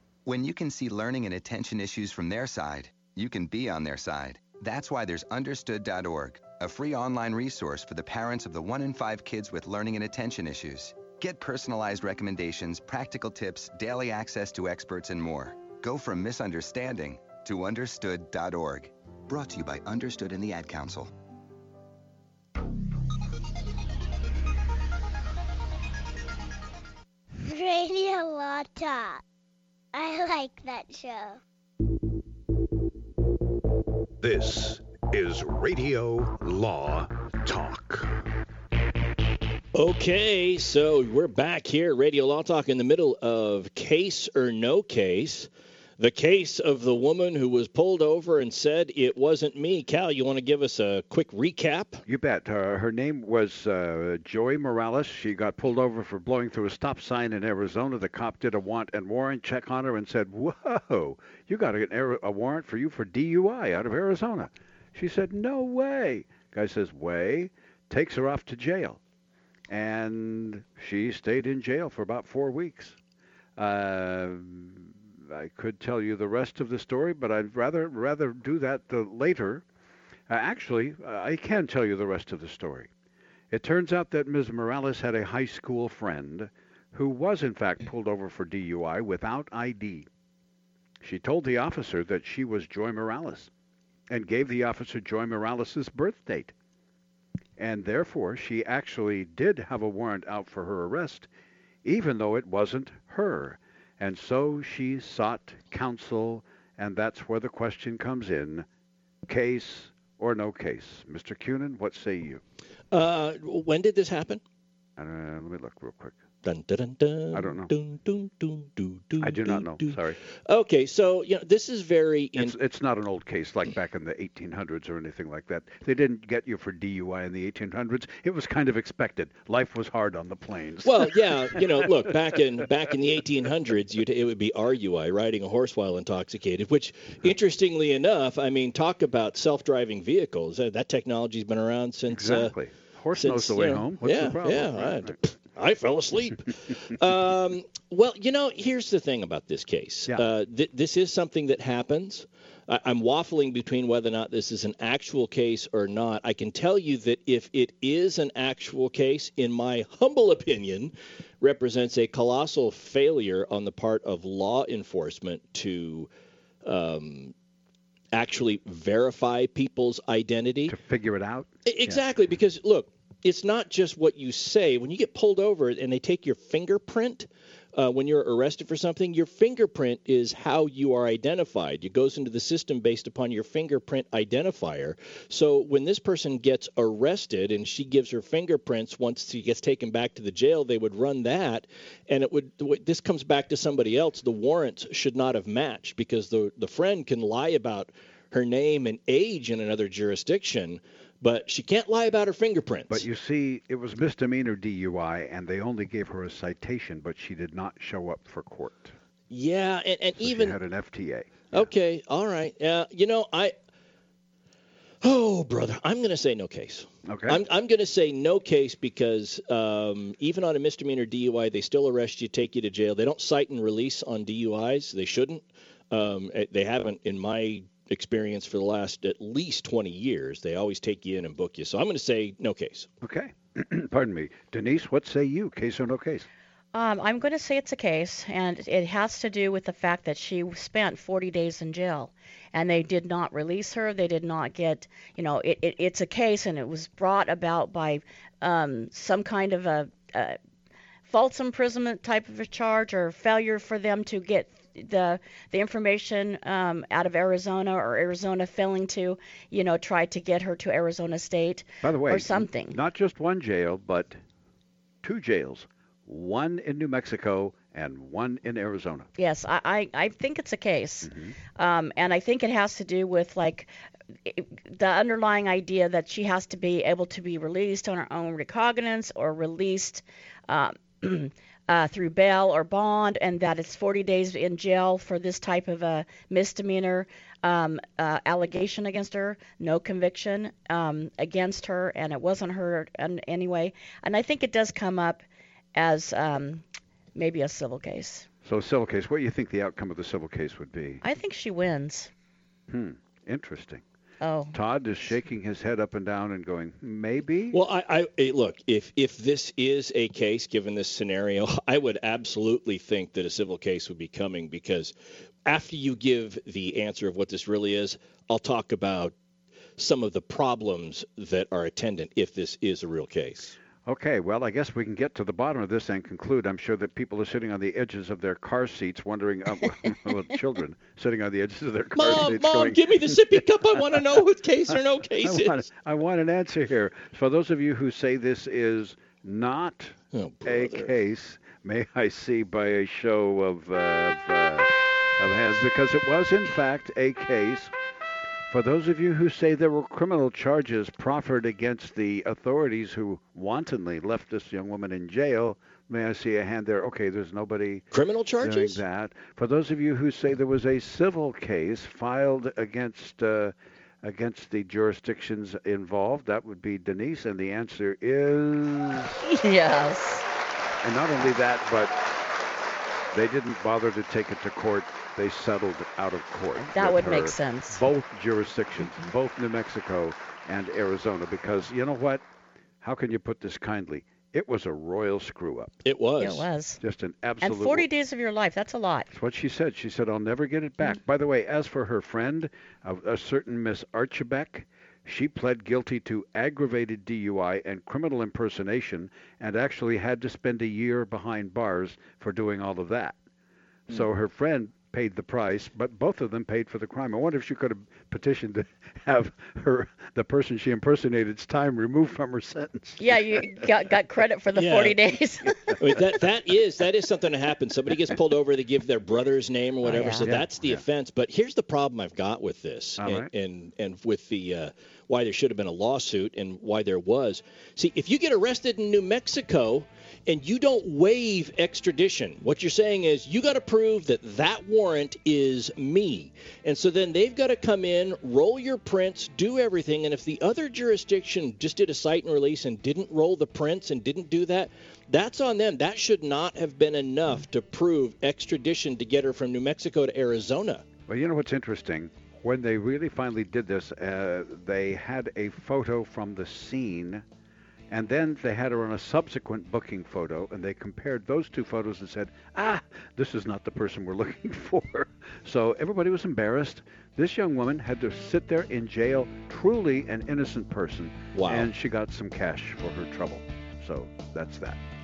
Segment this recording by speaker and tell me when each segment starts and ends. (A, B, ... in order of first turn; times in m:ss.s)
0:00.2-0:21.1 A
0:27.4-0:29.2 B
0:29.9-0:31.4 B
0:34.2-0:38.2 C
0:39.7-0:52.0 D
0:52.0-1:09.0 C
1:09.7-1:13.0 C
1:13.6-1:19.6 C
1:20.3-1:22.9 C
1:23.5-1:30.1 C
1:31.0-1:33.5 C
1:34.1-1:36.5 C
1:37.6-1:41.3 C
1:41.8-1:48.7 C
1:49.3-1:52.4 C
1:52.9-1:54.4 D
1:55.0-1:56.2 C
1:56.4-2:02.6 D
1:57.3-1:57.7 C
1:59.2-2:00.2 C
2:02.4-2:11.6 C
2:10.8-2:22.5 D
2:22.1-2:25.1 C
2:23.1-2:46.1 D
2:46.6-2:47.3 D
2:48.1-2:50.7 D
2:50.7-2:52.0 C
2:51.6-3:23.0 D
3:22.9-3:28.9 C
3:29.3-3:30.6 D
3:30.2-3:31.7 C
3:31.5-3:33.5 D
3:35.0-3:52.9 D
3:37.1-3:37.4 C
3:53.0-3:56.2 C
3:56.7-4:10.4 E
4:11.0-4:22.8 E
4:21.8-4:24.2 C
4:25.0-4:29.1 C
4:29.2-4:33.7 E
4:31.0-4:31.4 C
4:34.3-4:58.3 E
4:58.4-5:01.0 C
5:01.0-5:02.1 E
5:02.7-5:03.8 C
5:04.2-5:04.6 E
5:04.5-5:07.6 C
5:07.5-5:14.9 D
5:15.4-5:19.1 D
5:19.8-5:23.6 D
5:23.8-5:33.4 C
5:31.9-5:35.6 D
5:35.2-5:47.7 C
5:40.1-5:40.9 D
5:48.5-5:57.8 C
5:57.9-5:58.8 D
5:58.4-6:09.1 C
6:09.2-6:10.2 E
6:10.8-6:12.0 C
6:13.1-6:22.2 C
6:16.6-6:17.8 E
6:22.8-6:25.8 C
6:25.8-6:26.5 D
6:26.2-6:26.8 E
6:26.8-6:27.8 C
6:27.4-6:29.1 E
6:29.1-6:43.2 C
6:43.9-6:53.6 C
6:53.0-6:55.6 E
6:54.5-6:55.0 D
6:55.8-7:30.8 D
6:59.8-7:00.3 E
7:00.2-7:00.8 C
7:03.0-7:03.3 C
7:31.1-7:37.2 C
7:37.9-7:54.8 C
7:51.3-7:51.7 D